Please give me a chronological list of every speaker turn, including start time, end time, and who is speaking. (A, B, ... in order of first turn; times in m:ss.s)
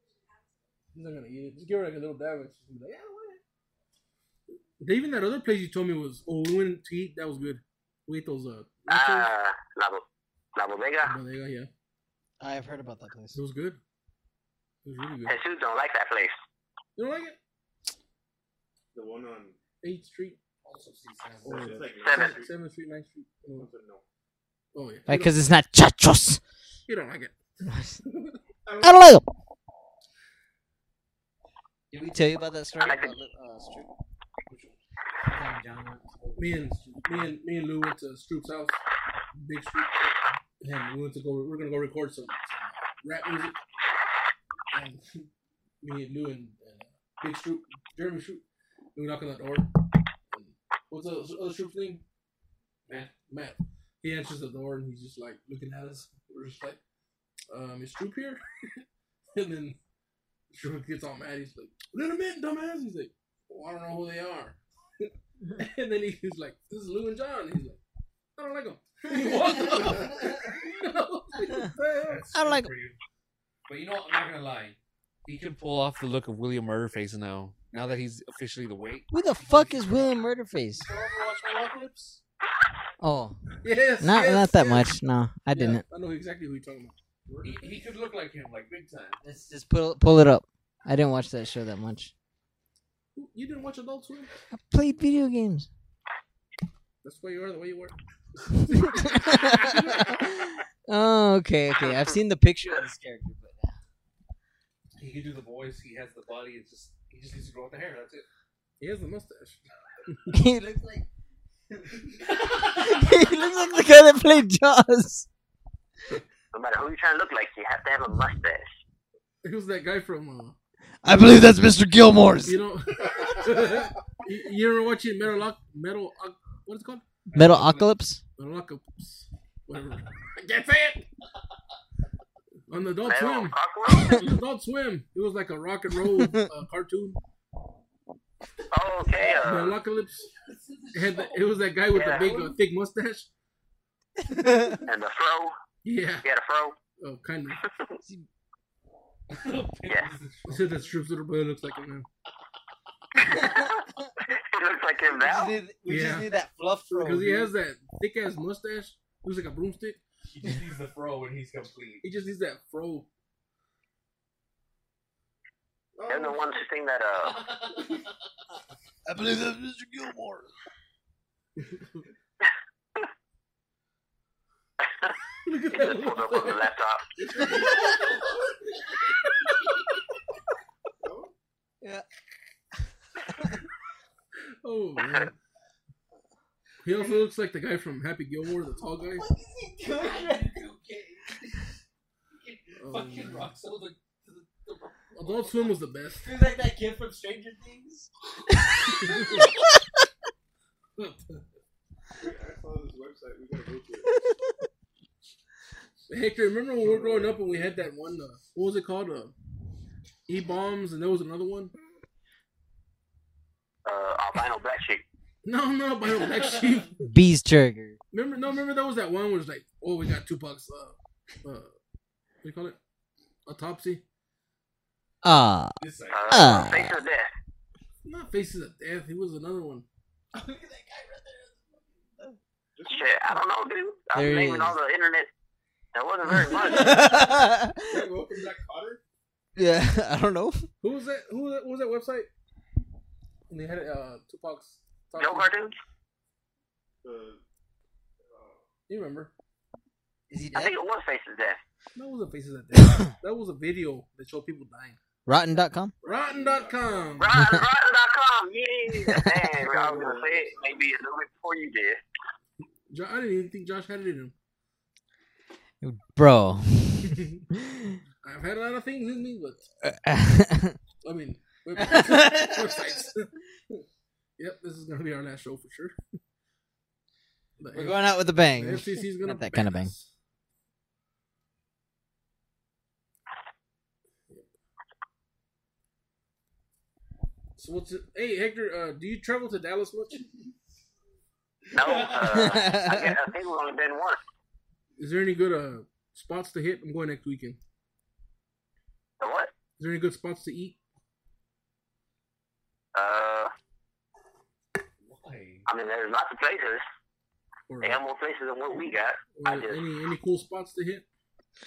0:00.9-0:03.4 A
0:04.8-0:09.3 A
0:08.9-0:10.0 B
0:10.6-0:11.2 B
0:11.0-0:11.7 A
0:12.4-0:13.4 C
0:13.3-0:13.8 A
0:14.8-0:15.4 A
0:15.3-0:16.4 B
0:17.0-0:17.4 A
0:18.9-0:19.6 D
0:19.8-0:20.4 A
0:20.6-0:21.8 E
0:21.4-0:22.6 D
0:21.4-0:23.7 A
0:22.0-0:22.4 B
0:23.5-0:24.0 D
0:24.7-0:25.4 A
0:25.1-0:26.4 C
0:26.9-0:27.3 A
0:27.6-0:28.0 C
0:28.1-0:28.4 A
0:28.6-0:29.0 D
0:28.8-0:29.2 C
0:31.9-0:33.9 C
0:32.8-0:33.2 B
0:35.3-0:37.0 C
0:36.4-0:38.8 A
0:39.4-0:40.0 A
0:40.6-0:43.6 A
0:44.7-0:45.3 A
0:45.8-0:48.4 A
0:49.0-0:49.7 A
0:50.3-0:52.0 A
0:52.9-0:56.8 A
0:57.5-0:58.8 A
0:59.3-0:59.8 A
1:00.5-1:07.8 A
1:08.4-1:12.2 A
1:12.0-1:13.0 E
1:12.3-1:12.7 C
1:13.7-1:20.1 E
1:19.1-1:20.9 C
1:20.8-1:22.2 E
1:23.0-1:23.4 C
1:23.6-1:25.0 A
1:24.0-1:25.8 C
1:25.5-1:27.0 A
1:27.3-1:27.8 D
1:27.4-1:29.2 E
1:29.2-1:32.1 C
1:33.2-1:34.3 A
1:34.5-1:35.7 C
1:37.0-1:40.3 A
1:38.7-1:43.8 C
1:41.8-1:42.1 B
1:45.0-1:48.3 E
1:48.8-1:50.3 A
1:50.3-1:51.1 C
1:52.6-1:55.3 C
1:56.5-1:58.7 B
1:59.4-2:00.6 A
2:01.0-2:02.6 C
2:02.5-2:07.1 A
2:03.1-2:03.7 D
2:07.3-2:07.9 E
2:07.3-2:08.2 C
2:08.4-2:11.1 A
2:12.7-2:17.2 A
2:13.0-2:14.2 B
2:16.2-2:16.4 C
2:18.7-2:19.8 B
2:19.4-2:20.3 A
2:20.3-2:22.5 E
2:20.9-2:23.3 A
2:21.9-2:22.3 B
2:24.3-2:24.8 C
2:24.9-2:25.6 B
2:25.8-2:26.3 A
2:26.2-2:26.8 B
2:27.0-2:27.6 A
2:29.3-2:30.8 E
2:30.5-2:32.1 A
2:33.2-2:35.5 B
2:33.4-2:33.6 C
2:35.2-2:37.5 C
2:35.9-2:36.3 A
2:36.9-2:40.0 A
2:40.3-2:42.0 E
2:42.0-2:43.1 A
2:46.0-2:46.7 D
2:46.1-2:47.5 B
2:47.3-2:48.0 E
2:54.8-2:55.1 B
2:55.4-2:56.7 A
2:55.7-2:57.0 B
2:57.2-2:57.9 A
3:01.0-3:01.3 D
3:04.6-3:05.4 A
3:06.8-3:09.2 A
3:09.2-3:10.6 C
3:09.9-3:11.6 E
3:12.4-3:15.7 E
3:12.8-3:13.5 A
3:15.1-3:16.4 A
3:16.2-3:17.1 E
3:16.3-3:18.0 C
3:18.7-3:19.2 C
3:19.0-3:19.5 A
3:21.0-3:21.4 A
3:22.2-3:24.1 D
3:26.1-3:29.3 A
3:26.8-3:27.8 D
3:30.3-3:31.7 A
3:33.8-3:35.0 B
3:35.4-3:37.0 A
3:37.1-3:38.0 C
3:38.1-3:41.7 A
3:42.4-3:42.8 A
3:43.5-3:44.0 A
3:45.2-3:45.7 C
3:45.8-3:46.4 E
3:46.1-3:47.3 B
3:46.3-3:47.0 C
3:48.0-3:49.9 A
3:52.8-3:53.4 D
3:52.9-3:55.3 B
3:54.1-3:54.8 C
3:55.9-3:57.0 B
3:56.4-3:58.1 C
3:56.8-3:57.2 D
3:57.9-3:59.0 D
3:59.6-4:00.7 C
4:00.8-4:02.3 A
4:03.5-4:05.5 A
4:05.2-4:05.8 B
4:07.0-4:07.4 D
4:08.2-4:08.7 D
4:08.9-4:09.3 A
4:10.3-4:10.8 C
4:10.6-4:11.6 B
4:12.0-4:15.0 A
4:15.3-4:15.9 C
4:16.0-4:17.2 D
4:16.0-4:17.4 A
4:17.2-4:22.0 B
4:19.6-4:20.8 D
4:19.7-4:20.2 A
4:22.9-4:24.3 A
4:25.8-4:28.0 C
4:28.2-4:29.6 A
4:29.8-4:30.8 C
4:31.0-4:33.8 A
4:31.8-4:32.7 C
4:34.4-4:36.0 A
4:37.6-4:40.1 A
4:37.7-4:39.9 C
4:47.6-4:50.2 A
4:51.8-4:54.2 B
4:52.3-4:53.2 C
4:55.0-4:57.6 A
4:59.2-4:59.5 B
4:59.8-5:00.8 A
5:03.0-5:03.5 B
5:05.0-5:05.7 E
5:05.7-5:06.8 B
5:07.7-5:08.0 A
5:07.8-5:09.8 B
5:09.3-5:11.0 A